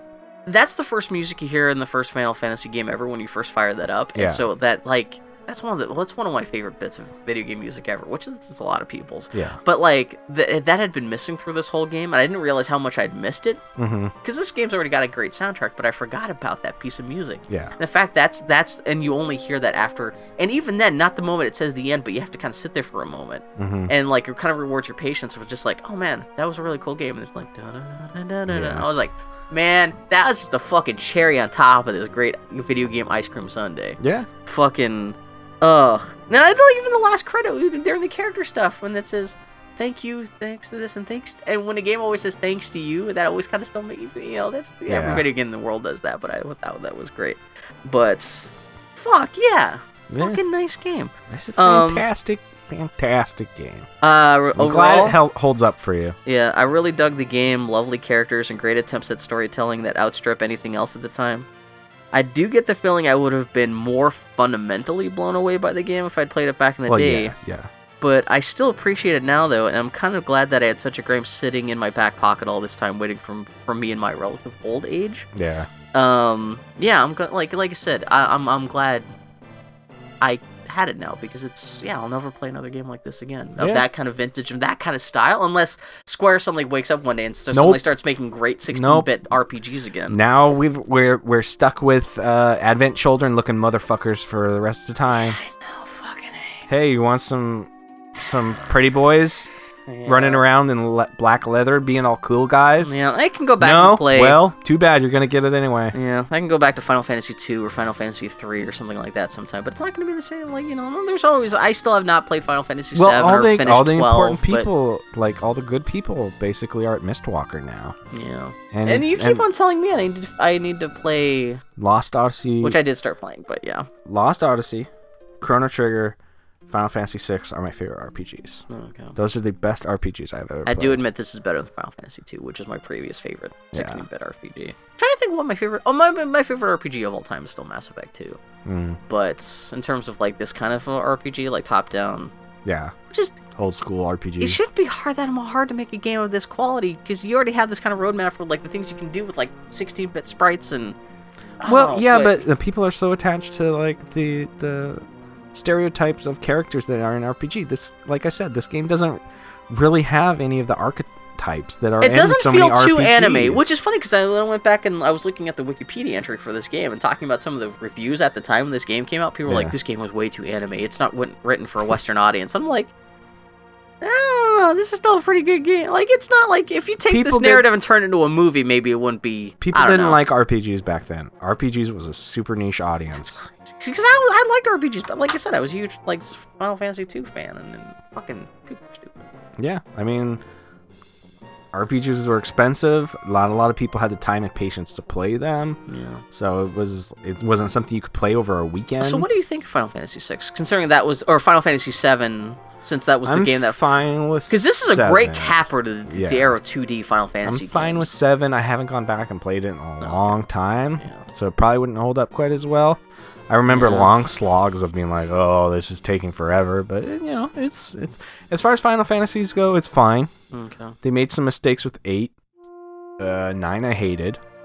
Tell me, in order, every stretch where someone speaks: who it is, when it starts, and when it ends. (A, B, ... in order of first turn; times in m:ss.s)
0:00.4-0:13.6 A
0:04.2-0:04.4 B
0:09.3-0:09.6 B
0:13.8-0:14.1 B
0:14.2-0:52.0 A
0:17.5-0:17.7 B
0:23.6-0:23.9 B
0:28.5-0:28.9 B
0:34.0-0:34.3 B
0:44.9-0:45.2 B
0:50.1-0:50.4 B
0:51.3-0:53.9 B
0:54.0-0:55.2 A
0:54.6-0:56.2 B
0:56.2-1:01.5 A
1:02.1-1:07.3 A
1:06.9-1:07.7 B
1:08.0-1:15.3 A
1:15.3-1:15.7 B
1:15.9-1:19.1 A
1:20.2-1:30.2 A
1:23.6-1:23.8 B
1:27.5-1:27.8 B
1:28.7-1:29.1 B
1:30.1-1:35.4 B
1:35.1-1:36.7 A
1:36.7-1:39.5 B
1:39.9-1:40.4 A
1:40.0-1:42.9 B
1:42.8-1:44.4 A
1:43.6-1:45.9 B
1:45.9-1:54.7 A
1:52.9-1:58.0 B
1:58.1-2:01.6 A
1:58.7-1:59.4 B
2:01.8-2:02.8 B
2:02.6-2:03.9 A
2:04.0-2:04.9 B
2:05.4-2:06.2 B
2:06.7-2:08.6 B
2:08.7-2:09.2 A
2:09.2-2:11.0 B
2:10.6-2:18.4 A
2:13.7-2:14.0 B
2:18.6-2:19.0 B
2:19.1-2:22.3 A
2:22.6-2:22.9 B
2:23.1-2:23.4 A
2:23.5-2:24.6 B
2:24.4-2:31.0 A
2:31.6-2:32.4 A
2:31.6-2:35.0 B
2:35.5-2:43.7 B
2:42.0-2:52.9 A
2:49.5-2:49.7 B
2:54.0-3:00.2 A
2:57.1-2:57.6 B
2:59.6-3:03.5 B
3:03.2-3:09.3 A
3:09.6-3:10.4 B
3:11.7-3:15.8 B
3:15.9-3:16.2 A
3:16.3-3:19.3 B
3:19.0-3:23.8 A
3:23.2-3:26.5 B
3:24.5-3:28.1 A
3:27.4-3:40.3 B
3:30.0-3:30.4 A
3:33.7-3:34.1 A
3:40.5-3:41.0 A
3:41.0-3:42.3 B
3:43.2-3:44.4 B